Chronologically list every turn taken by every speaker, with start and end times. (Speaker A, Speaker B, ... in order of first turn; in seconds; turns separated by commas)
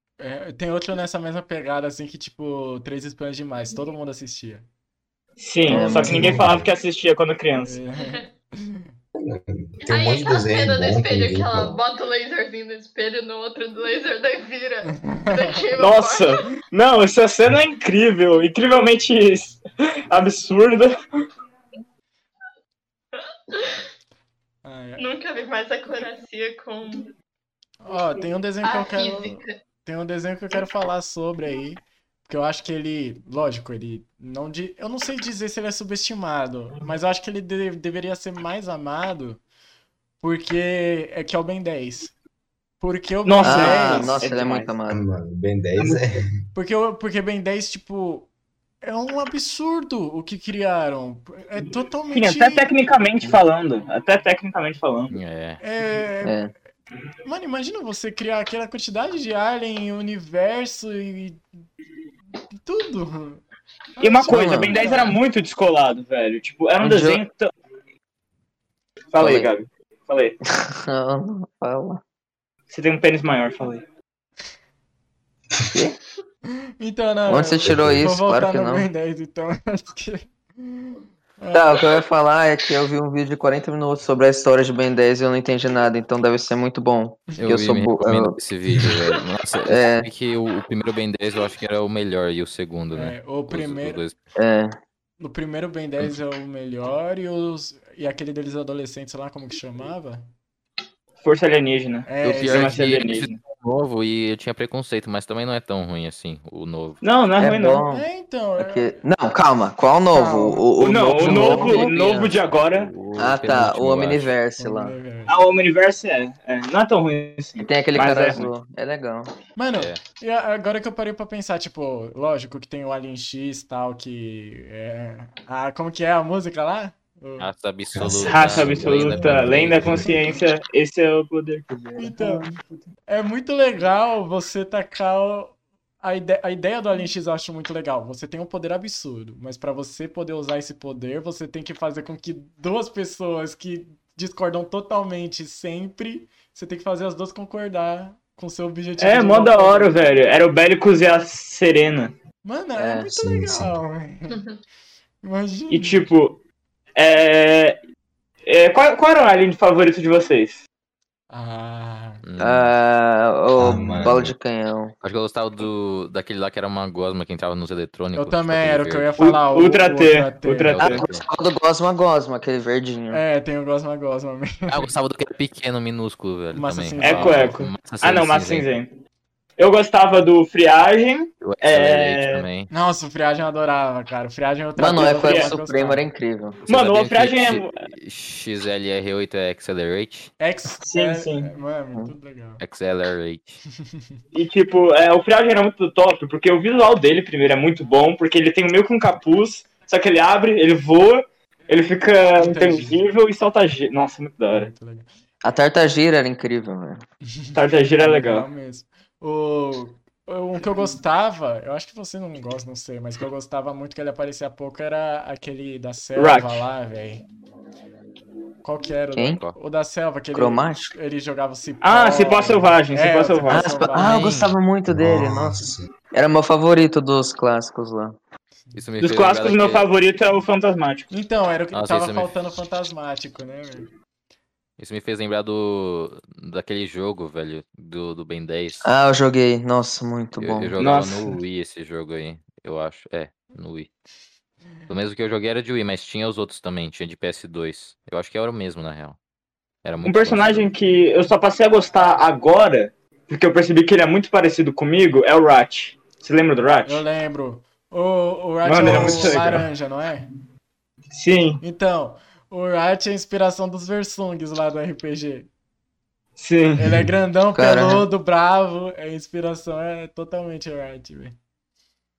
Speaker A: 0.2-4.7, Speaker B: 5.4-7.8, Speaker C: 5.7-6.4, Speaker A: 5.7-6.3, Speaker D: 6.0-6.7, Speaker A: 7.6-8.8, Speaker D: 9.1-11.8, Speaker E: 9.8-16.5, Speaker A: 14.9-15.6, Speaker B: 15.8-20.9, Speaker E: 23.1-23.8, Speaker A: 24.6-25.1, Speaker E: 25.0-27.1, Speaker A: 27.8-39.4, Speaker E: 28.6-29.6, Speaker A: 40.2-42.1, Speaker A: 42.8-44.2, Speaker B: 43.2-44.7, Speaker C: 43.4-45.0, Speaker D: 44.9-46.3, Speaker A: 46.5-48.3, Speaker A: 48.8-52.7, Speaker B: 52.1-55.1, Speaker F: 55.1-55.6, Speaker A: 55.6-56.4, Speaker C: 56.2-56.5, Speaker A: 57.2-61.4, Speaker A: 62.6-63.4, Speaker A: 64.0-65.2, Speaker B: 64.0-67.5, Speaker C: 64.3-64.7, Speaker C: 66.8-67.2, Speaker B: 69.1-70.4, Speaker C: 69.2-69.5, Speaker C: 70.5-72.0, Speaker B: 72.7-73.8, Speaker C: 75.7-76.0, Speaker A: 76.8-81.8, Speaker C: 77.3-78.9, Speaker D: 77.7-78.0, Speaker C: 81.5-88.4, Speaker F: 87.4-94.1, Speaker C: 89.6-90.1, Speaker A: 92.9-94.0, Speaker C: 94.4-94.8, Speaker A: 95.2-100.3, Speaker B: 101.2-103.4, Speaker A: 102.0-102.8, Speaker F: 102.2-107.0, Speaker B: 107.0-107.8, Speaker C: 107.4-108.0, Speaker A: 107.9-109.0, Speaker C: 108.6-112.3, Speaker A: 110.1-111.9, Speaker B: 110.8-112.9, Speaker F: 112.5-114.3, Speaker C: 113.2-114.9, Speaker A: 114.6-115.4, Speaker B: 115.3-118.5, Speaker C: 117.6-119.3, Speaker A: 119.6-127.5, Speaker F: 119.7-120.0, Speaker F: 127.4-130.2, Speaker D: 127.9-130.3, Speaker B: 128.2-132.6, Speaker A: 132.0-132.4, Speaker A: 133.1-149.9, Speaker B: 149.0-152.1, Speaker A: 152.4-154.4, Speaker C: 152.8-153.1, Speaker D: 153.1-153.8, Speaker E: 154.3-154.6, Speaker A: 155.2-156.1, Speaker B: 155.7-156.4, Speaker B: 156.9-157.8, Speaker B: 158.4-160.6, Speaker A: 161.3-162.2, Speaker F: 162.2-162.7, Speaker C: 162.4-164.9, Speaker D: 163.6-164.3, Speaker F: 165.0-169.1, Speaker A: 168.1-171.0, Speaker B: 169.2-171.0, Speaker F: 170.7-171.2, Speaker C: 170.8-173.2, Speaker A: 173.1-174.9, Speaker F: 174.7-178.7, Speaker A: 176.5-177.6, Speaker B: 177.0-178.9, Speaker B: 179.6-182.4, Speaker F: 181.4-182.7, Speaker A: 182.7-186.0, Speaker C: 184.8-186.6, Speaker B: 184.9-185.5, Speaker F: 186.7-190.3, Speaker B: 186.7-187.8, Speaker A: 190.4-192.6, Speaker B: 190.8-191.5, Speaker F: 192.6-193.6, Speaker B: 194.3-204.7, Speaker A: 202.4-203.0, Speaker A: 204.5-205.1, Speaker C: 205.4-207.0, Speaker A: 207.4-217.2, Speaker B: 207.5-208.5, Speaker B: 216.2-216.7, Speaker A: 218.6-224.5, Speaker C: 220.3-220.9, Speaker B: 221.8-223.8, Speaker C: 223.5-228.2, Speaker F: 224.0-224.4, Speaker D: 224.9-225.9, Speaker F: 228.7-229.9, Speaker B: 229.0-231.1, Speaker A: 231.1-233.9, Speaker F: 231.7-232.3, Speaker F: 234.8-238.8, Speaker C: 238.8-240.7, Speaker F: 240.4-243.9, Speaker B: 240.8-241.4, Speaker F: 244.9-249.2, Speaker F: 249.8-250.7, Speaker B: 250.0-257.0, Speaker A: 256.9-260.3, Speaker B: 258.6-259.6, Speaker D: 258.8-259.6, Speaker B: 261.1-261.6, Speaker A: 261.6-265.5, Speaker B: 266.4-267.1, Speaker A: 266.8-271.4, Speaker C: 267.5-268.1